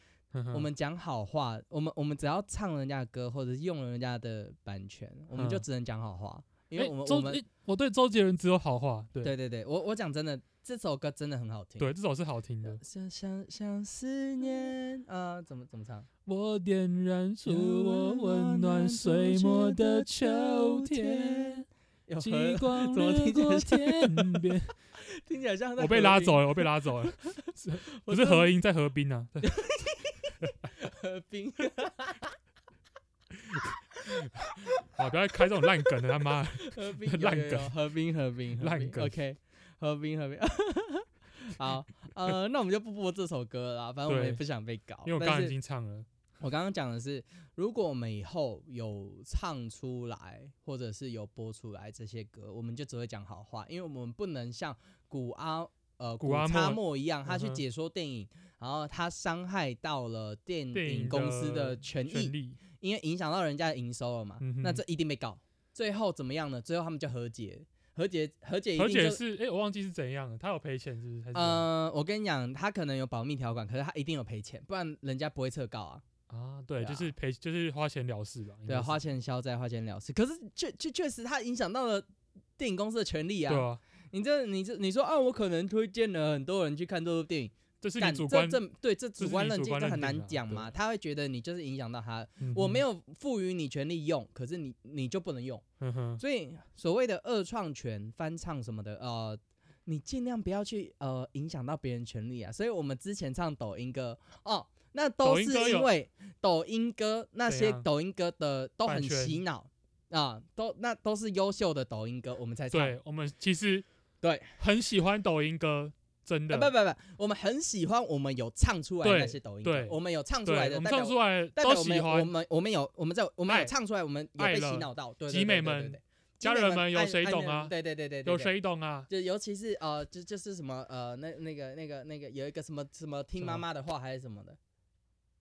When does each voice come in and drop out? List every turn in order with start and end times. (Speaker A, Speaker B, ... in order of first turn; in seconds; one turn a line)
Speaker A: 0.3-0.7
Speaker B: 0.5-7.4
Speaker A: 5.3-5.7
Speaker A: 6.8-9.3
Speaker B: 9.2-11.9
Speaker A: 11.8-12.8
Speaker B: 12.6-16.1
Speaker A: 14.4-14.7
Speaker A: 16.3-21.7
Speaker B: 17.5-27.4
Speaker A: 22.2-24.7
Speaker A: 25.8-29.6
Speaker B: 27.9-28.5
Speaker B: 29.4-32.4
Speaker A: 33.3-37.8
Speaker B: 34.1-34.6
Speaker B: 36.6-45.5
Speaker A: 38.6-39.1
Speaker A: 44.1-44.4
Speaker A: 45.0-46.1
Speaker B: 46.4-69.2
Speaker A: 56.2-57.6
Speaker A: 60.7-62.6
Speaker A: 64.4-64.8
Speaker A: 68.8-71.7
Speaker B: 71.3-76.0
Speaker A: 76.3-79.0
Speaker B: 76.8-77.1
Speaker B: 78.7-82.1
Speaker B: 82.6-95.6
Speaker A: 83.5-83.8
Speaker A: 87.8-88.6
Speaker A: 89.2-90.7
Speaker A: 92.4-92.8
Speaker A: 95.8-96.2
Speaker B: 96.2-112.9
Speaker A: 105.2-105.9
Speaker A: 107.5-107.8
Speaker A: 108.9-109.4
Speaker A: 112.7-113.9
Speaker B: 114.2-114.6
Speaker A: 114.6-116.7
Speaker B: 116.5-128.5
Speaker A: 119.0-122.3
Speaker A: 123.5-123.7
Speaker A: 124.4-127.7
Speaker A: 128.2-129.1
Speaker B: 129.1-134.6
Speaker A: 133.4-133.6